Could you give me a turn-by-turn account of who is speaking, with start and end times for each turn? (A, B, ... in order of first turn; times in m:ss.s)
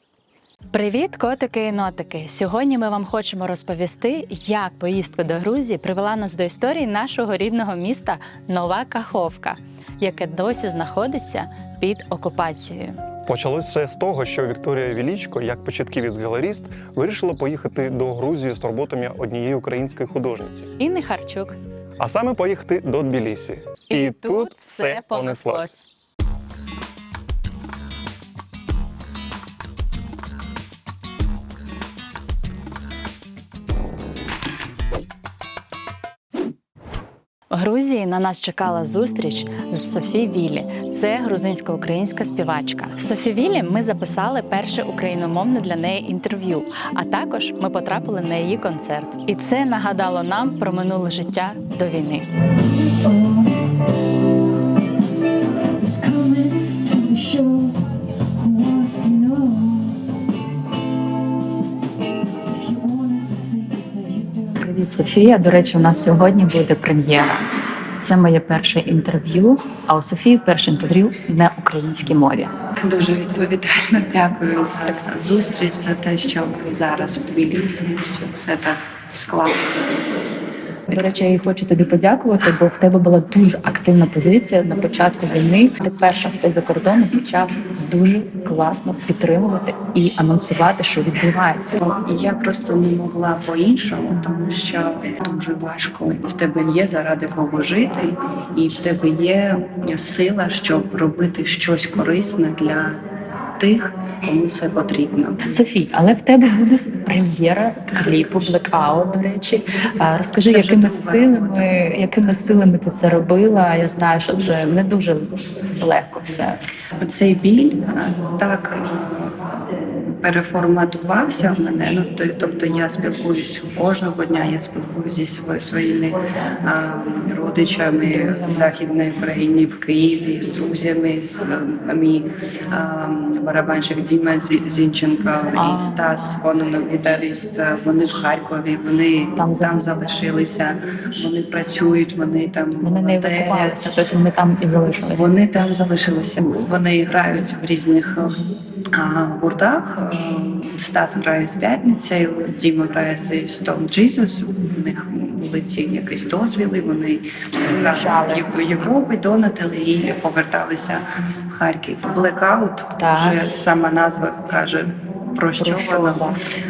0:00.7-0:13.0 A
0:13.3-0:20.7 B
0:20.8-0:21.6 A
0:22.0-0:25.7 B
0:23.9-0:25.9 A
0:37.5-0:52.3 A
0:55.8-0:57.7 A
0:58.4-0:59.8 A
1:02.6-1:07.4 A
1:08.0-1:12.5 A
1:12.8-1:20.0 C
1:20.9-1:31.8 A
1:31.8-1:43.0 C
1:43.6-1:45.5 C
1:45.5-1:56.6 A
1:50.3-1:52.3 C
1:57.0-1:59.6 C
2:00.2-2:24.0 C
2:08.1-2:08.7 A
2:15.6-2:16.0 A
2:19.4-2:19.7 A
2:22.8-2:25.2 A
2:25.0-2:46.4 C
2:37.9-2:38.4 A
2:43.0-2:43.4 A
2:45.6-2:46.4 A